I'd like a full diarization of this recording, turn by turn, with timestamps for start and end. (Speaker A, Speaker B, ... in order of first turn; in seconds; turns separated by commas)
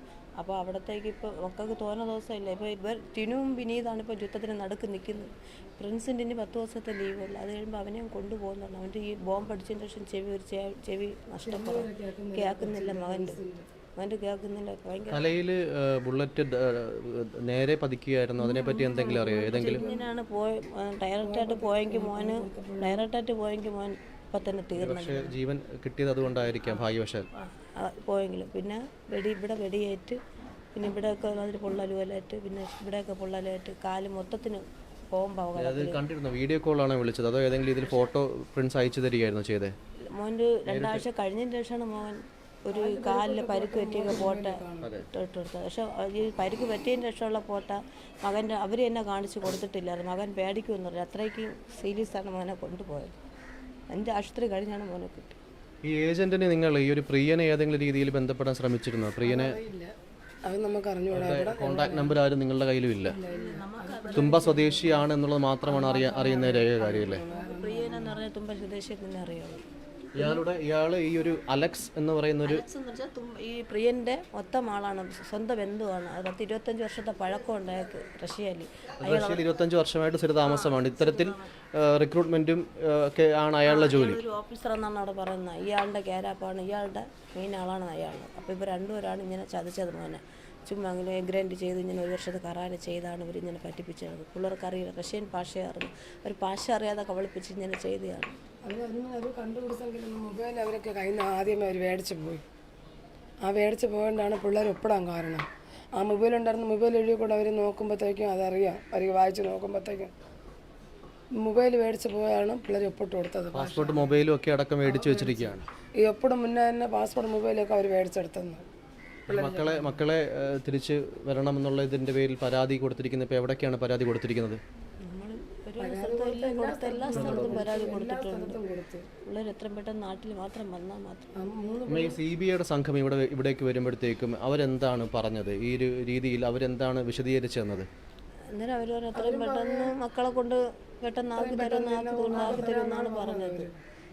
Speaker A: 0.4-13.4, Speaker B: 11.4-13.7, Speaker A: 14.0-15.2, Speaker C: 15.1-19.8, Speaker A: 18.4-25.3, Speaker B: 18.9-20.1, Speaker B: 21.2-23.0, Speaker C: 24.8-27.3, Speaker A: 26.6-30.2, Speaker A: 30.7-36.0, Speaker C: 35.5-39.7, Speaker A: 40.1-53.1, Speaker C: 40.7-41.0, Speaker B: 42.7-44.9, Speaker C: 44.8-45.1, Speaker A: 53.9-55.4, Speaker C: 55.8-59.5, Speaker B: 59.2-59.9, Speaker B: 60.4-62.2, Speaker C: 61.1-63.2, Speaker B: 63.0-64.6, Speaker A: 63.3-65.1, Speaker C: 64.1-67.2, Speaker B: 65.7-68.2, Speaker A: 66.0-69.6, Speaker C: 70.2-72.6, Speaker A: 72.4-79.4, Speaker C: 79.0-84.2, Speaker A: 80.4-81.5, Speaker A: 83.6-98.3, Speaker B: 98.6-102.4, Speaker B: 103.4-110.1, Speaker B: 111.3-114.1, Speaker C: 113.5-115.6, Speaker B: 114.8-118.6, Speaker C: 119.3-124.6, Speaker B: 119.3-120.0, Speaker A: 125.0-128.6, Speaker B: 125.8-129.1, Speaker C: 127.1-127.7, Speaker A: 129.2-131.3, Speaker B: 131.4-132.2, Speaker C: 131.9-137.9, Speaker A: 138.5-143.7, Speaker B: 139.1-139.9, Speaker B: 141.3-143.8